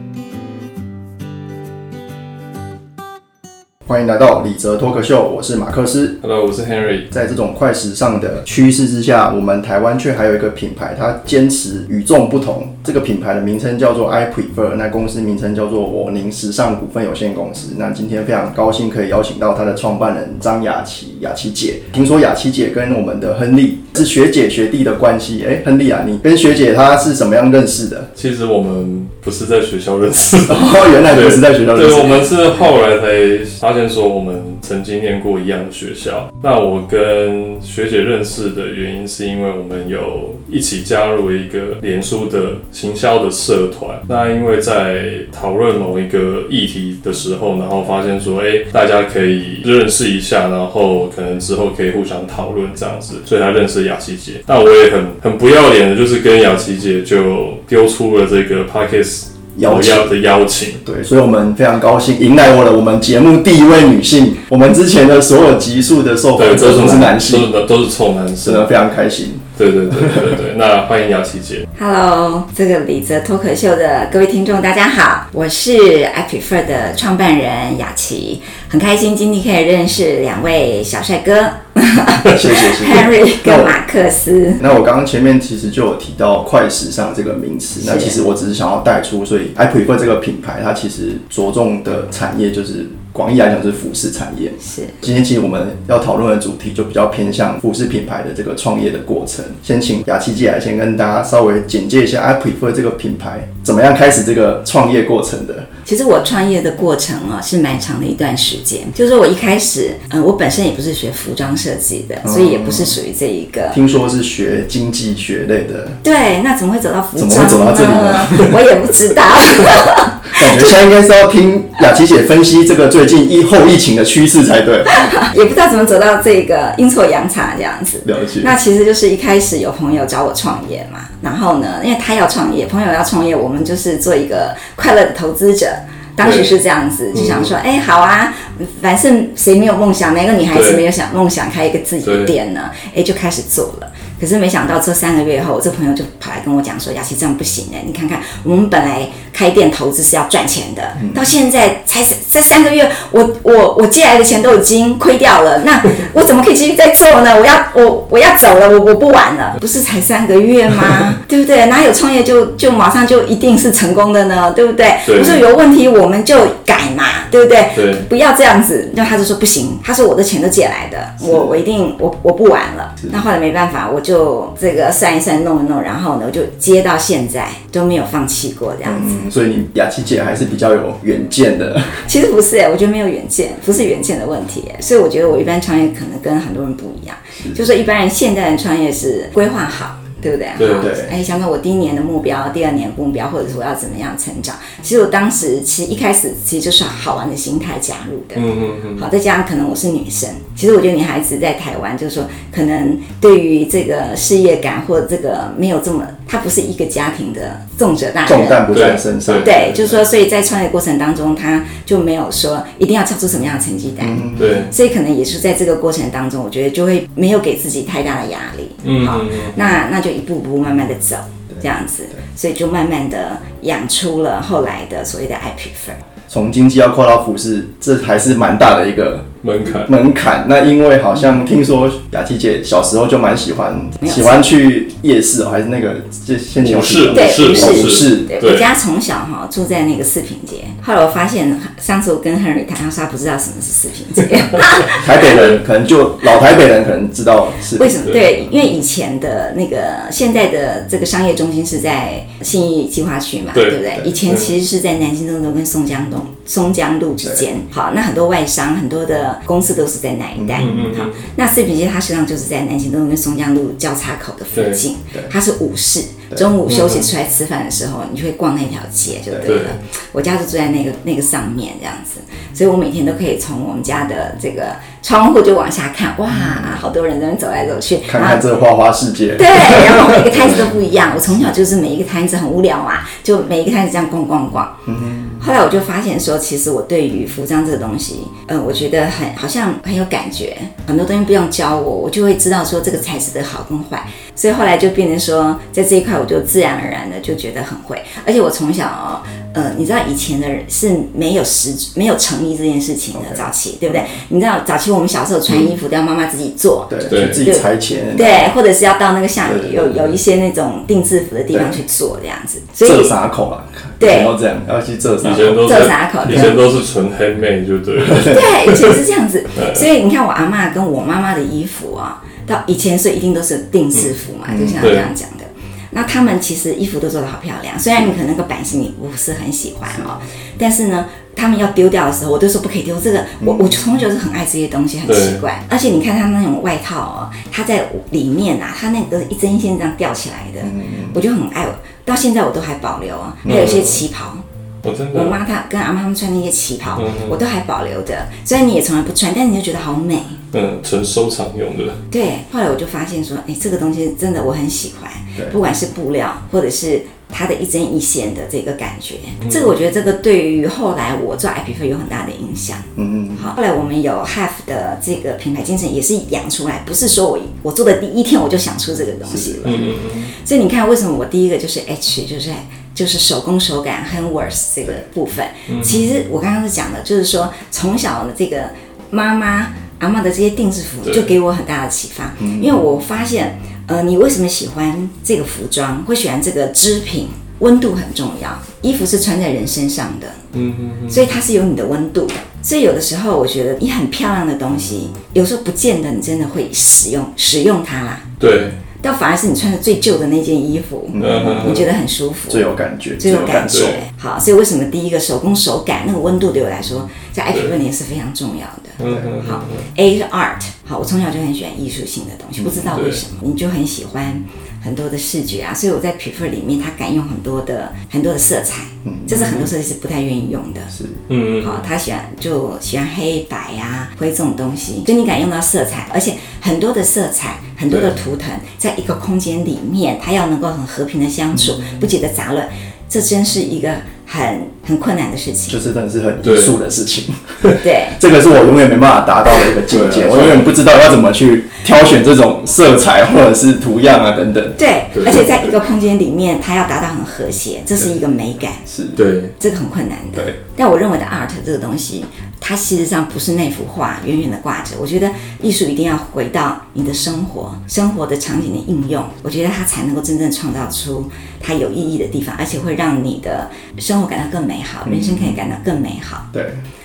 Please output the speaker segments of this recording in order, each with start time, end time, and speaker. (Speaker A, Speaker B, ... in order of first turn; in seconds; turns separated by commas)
Speaker A: 3.9-6.2, Speaker B: 6.2-7.1, Speaker A: 7.1-28.1, Speaker B: 28.2-60.8, Speaker A: 30.5-32.4, Speaker A: 59.6-60.1, Speaker A: 60.8-67.5, Speaker B: 66.4-68.7, Speaker A: 68.4-70.3, Speaker B: 69.6-71.7, Speaker C: 71.8-84.7, Speaker A: 82.3-83.8, Speaker A: 84.6-105.7, Speaker C: 87.8-88.2, Speaker C: 94.6-95.0, Speaker C: 105.9-113.8, Speaker A: 112.2-113.0, Speaker A: 113.7-116.0, Speaker C: 116.0-120.7, Speaker A: 117.2-118.6, Speaker A: 120.3-125.1, Speaker C: 124.9-179.3, Speaker A: 128.1-128.5, Speaker B: 136.2-136.6, Speaker B: 137.1-137.5, Speaker B: 140.5-140.8, Speaker B: 142.0-142.3, Speaker B: 165.1-165.4, Speaker B: 167.8-168.1, Speaker A: 171.2-171.6, Speaker A: 178.8-182.0, Speaker C: 182.1-208.7, Speaker B: 190.6-190.9, Speaker A: 190.8-191.1, Speaker B: 198.3-199.1, Speaker A: 208.3-209.8, Speaker B: 208.7-209.9, Speaker C: 209.4-226.0, Speaker A: 214.0-214.7, Speaker B: 214.4-214.7, Speaker B: 218.8-219.6, Speaker A: 226.3-238.3, Speaker B: 229.4-229.9, Speaker C: 234.0-234.5, Speaker B: 236.6-238.7, Speaker C: 237.1-245.3, Speaker A: 244.9-248.1, Speaker C: 247.8-278.4, Speaker B: 253.5-254.6, Speaker A: 260.4-260.9, Speaker B: 260.6-261.2, Speaker B: 264.6-264.8, Speaker B: 266.7-267.1, Speaker B: 269.5-269.8, Speaker A: 276.3-276.8, Speaker A: 278.1-280.6, Speaker C: 279.4-284.8, Speaker B: 280.4-280.7, Speaker A: 284.9-285.4, Speaker C: 285.4-313.1, Speaker A: 303.1-304.0, Speaker A: 306.9-308.5, Speaker B: 307.1-307.4, Speaker A: 309.4-310.1, Speaker A: 311.5-311.8, Speaker A: 312.8-316.3, Speaker C: 314.0-314.4, Speaker B: 315.2-319.0, Speaker C: 315.6-316.6, Speaker A: 318.1-318.4, Speaker C: 318.2-344.4, Speaker B: 319.6-319.9, Speaker A: 324.5-324.9, Speaker B: 324.8-325.1, Speaker A: 333.4-333.9, Speaker B: 335.1-335.4, Speaker A: 340.6-341.2, Speaker B: 343.5-344.0, Speaker B: 344.8-345.4, Speaker C: 345.1-350.4, Speaker B: 347.0-347.4, Speaker B: 350.5-352.0, Speaker C: 352.1-362.9, Speaker B: 359.5-359.7, Speaker A: 363.0-363.5, Speaker C: 363.4-390.4, Speaker A: 369.3-369.9, Speaker B: 369.6-370.3, Speaker B: 375.7-376.1, Speaker B: 381.1-381.3, Speaker A: 382.4-382.9, Speaker B: 390.5-391.3, Speaker C: 391.1-398.3, Speaker B: 398.4-398.8, Speaker C: 399.0-402.7, Speaker A: 401.1-401.9, Speaker B: 401.2-401.9, Speaker A: 402.5-404.0, Speaker C: 403.2-420.9, Speaker B: 403.7-404.0, Speaker B: 409.0-409.9, Speaker A: 409.0-409.3, Speaker A: 412.6-413.0, Speaker B: 412.9-413.2, Speaker A: 419.1-419.7, Speaker A: 420.9-421.2, Speaker B: 421.3-421.8, Speaker C: 421.6-435.8, Speaker A: 435.7-445.8, Speaker B: 436.4-436.8, Speaker C: 437.8-438.2, Speaker B: 439.9-440.7, Speaker C: 444.8-448.8, Speaker B: 445.1-445.5, Speaker A: 448.9-449.2, Speaker B: 449.2-449.5, Speaker C: 449.6-466.5, Speaker A: 465.1-465.6, Speaker A: 466.5-466.8